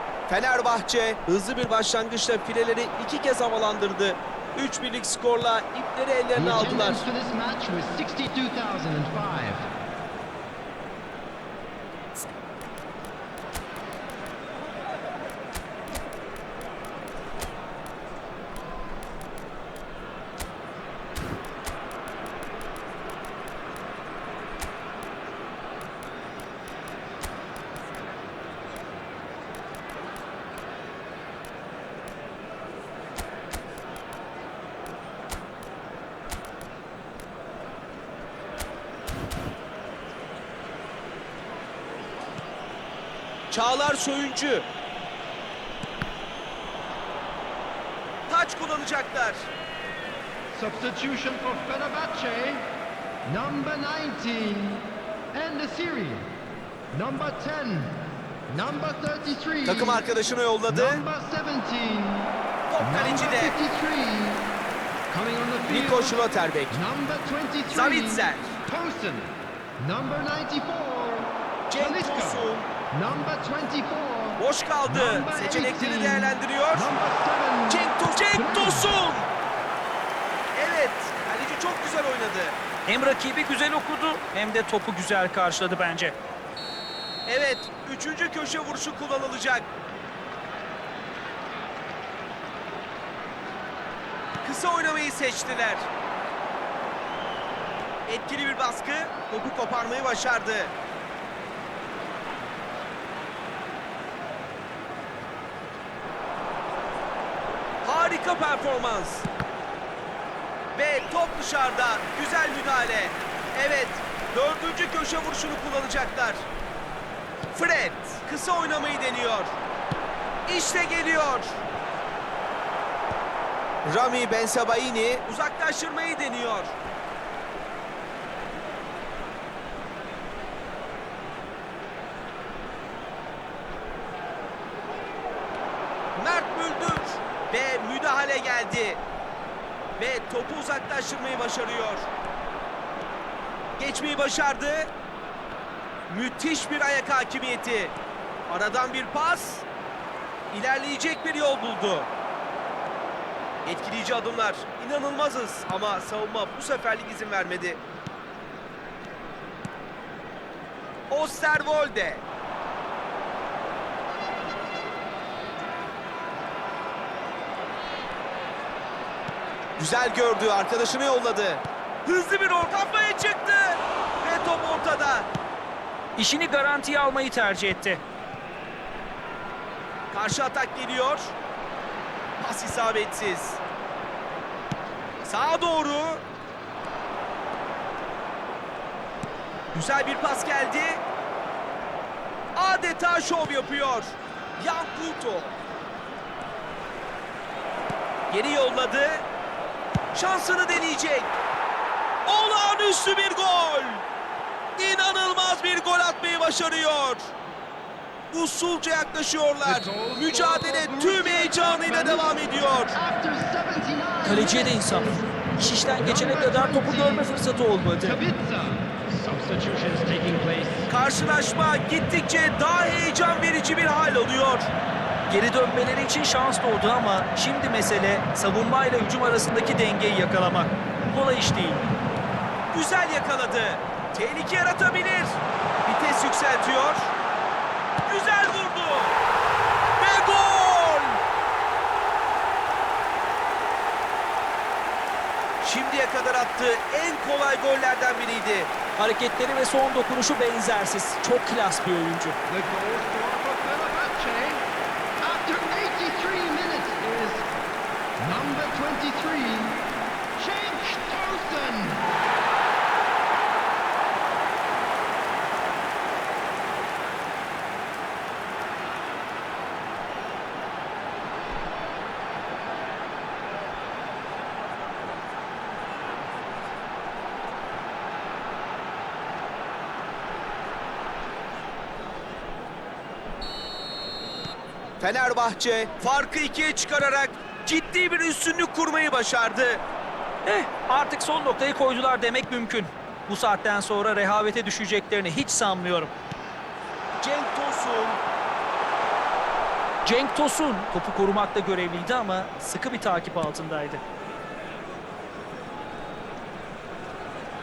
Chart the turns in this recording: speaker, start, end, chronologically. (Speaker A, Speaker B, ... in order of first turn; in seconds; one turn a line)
Speaker A: 0.3-7.0
Speaker B: 6.3-9.6
Speaker A: 43.5-44.7
Speaker A: 48.3-49.5
Speaker B: 50.5-52.7
Speaker B: 53.3-56.3
Speaker B: 56.9-58.0
Speaker B: 58.5-60.0
Speaker A: 59.6-61.0
Speaker B: 60.7-64.5
Speaker A: 62.7-63.6
Speaker B: 65.1-78.9
Speaker A: 65.7-66.8
Speaker A: 67.7-68.6
Speaker A: 71.7-72.7
Speaker A: 74.4-76.9
Speaker A: 77.7-79.3
Speaker A: 80.5-82.6
Speaker C: 82.9-86.2
Speaker A: 87.3-89.7
Speaker A: 94.4-95.9
Speaker A: 98.1-100.7
Speaker A: 107.8-109.3
Speaker A: 110.8-116.5
Speaker A: 117.5-119.5
Speaker A: 120.5-121.6
Speaker A: 123.8-126.8
Speaker A: 136.2-139.0
Speaker A: 140.0-142.1
Speaker A: 143.8-144.9
Speaker A: 146.1-147.9
Speaker A: 148.5-149.7
Speaker A: 150.5-152.1
Speaker A: 153.7-157.8
Speaker A: 161.1-162.2
Speaker A: 169.8-175.3
Speaker C: 176.2-178.0
Speaker A: 180.1-181.3
Speaker A: 182.4-183.6
Speaker A: 185.2-186.2
Speaker A: 189.7-191.0
Speaker A: 192.6-195.6
Speaker A: 198.3-199.3
Speaker A: 200.1-201.3
Speaker A: 202.3-204.0
Speaker A: 204.8-207.3
Speaker A: 208.3-212.9
Speaker B: 209.6-212.3
Speaker B: 212.9-215.3
Speaker C: 214.2-218.2
Speaker B: 216.0-217.2
Speaker B: 218.1-220.9
Speaker A: 220.9-224.7
Speaker C: 225.3-231.9
Speaker A: 232.7-237.1
Speaker A: 238.1-239.2
Speaker A: 240.0-241.2
Speaker A: 245.6-248.7
Speaker C: 248.9-252.4
Speaker B: 252.5-254.7
Speaker B: 255.2-257.5
Speaker B: 258.2-262.1
Speaker A: 285.0-289.8
Speaker C: 290.4-296.1
Speaker A: 297.2-298.2
Speaker C: 300.0-304.0